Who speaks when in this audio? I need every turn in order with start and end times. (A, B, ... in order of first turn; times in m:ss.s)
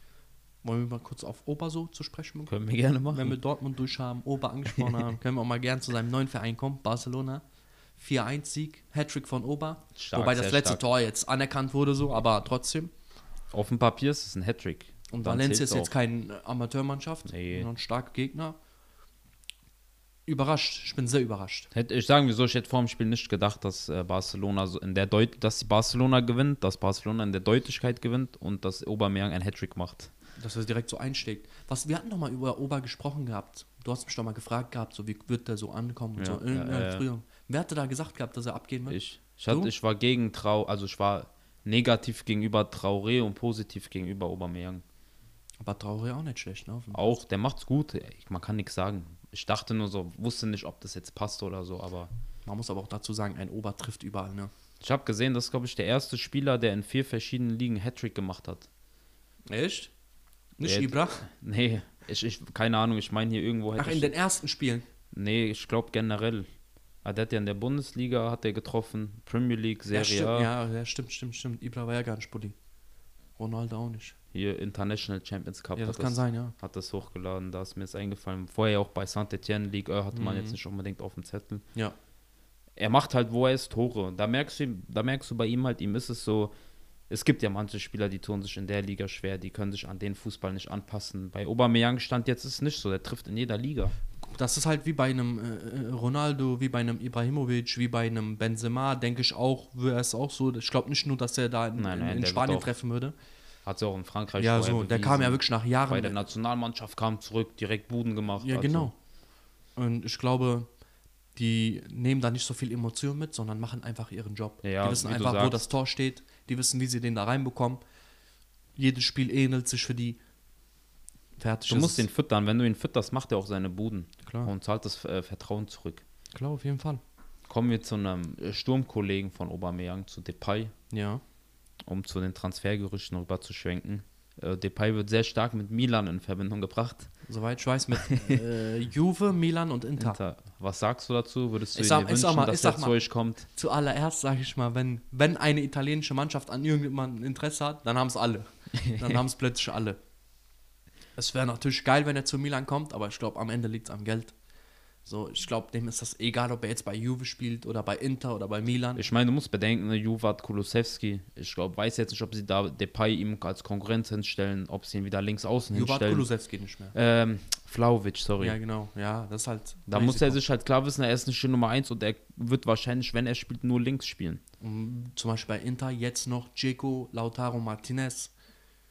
0:00.6-0:02.5 A
0:02.5-0:03.4 B
0:03.1-0:07.4 A
0:08.0-0:12.9 A
0:10.0-0:10.8 B
0:13.5-0:15.9 B
0:15.1-0:18.6 A
0:17.2-0:17.7 B
0:20.3-0:21.7 A
0:21.7-0:30.1 B
0:30.4-0:39.7 A
0:36.2-0:37.0 B
0:38.9-0:44.8 B
0:45.6-0:47.2 A
0:46.9-0:52.1 B
0:52.4-0:54.5 A
0:54.8-0:58.7 B
0:59.5-0:59.9 A
1:00.6-1:01.2 A
1:00.6-1:04.1 B
1:03.8-1:04.8 A
1:05.1-1:06.5 B
1:07.0-1:10.5 B
1:09.9-1:12.5 A
1:13.4-1:14.2 A
1:14.3-1:21.6 B
1:15.8-1:16.5 A
1:20.1-1:20.6 A
1:22.8-1:26.5 B
1:27.1-1:34.0 B
1:34.3-1:43.1 A
1:41.8-1:42.7 B
1:43.6-1:48.9 B
1:44.4-1:46.2 A
1:48.4-1:48.9 A
1:49.8-1:50.7 A
1:51.3-1:57.8 A
1:54.6-1:55.7 B
1:58.8-2:00.2 A
2:01.4-2:02.1 A
2:01.7-2:06.0 B
2:04.2-2:04.5 A
2:06.3-2:07.0 A
2:07.5-2:10.7 B
2:10.9-2:11.2 A
2:11.8-2:17.1 B
2:17.3-2:20.2 A
2:18.1-2:18.4 B
2:20.0-2:23.5 B
2:21.7-2:30.0 A
2:28.8-2:29.2 B
2:31.2-2:34.3 A
2:35.0-2:39.0 A
2:39.0-2:46.3 B
2:45.7-2:47.0 A
2:46.9-2:48.6 B
2:48.4-2:50.4 A
2:49.9-2:54.4 B
2:54.6-2:58.3 A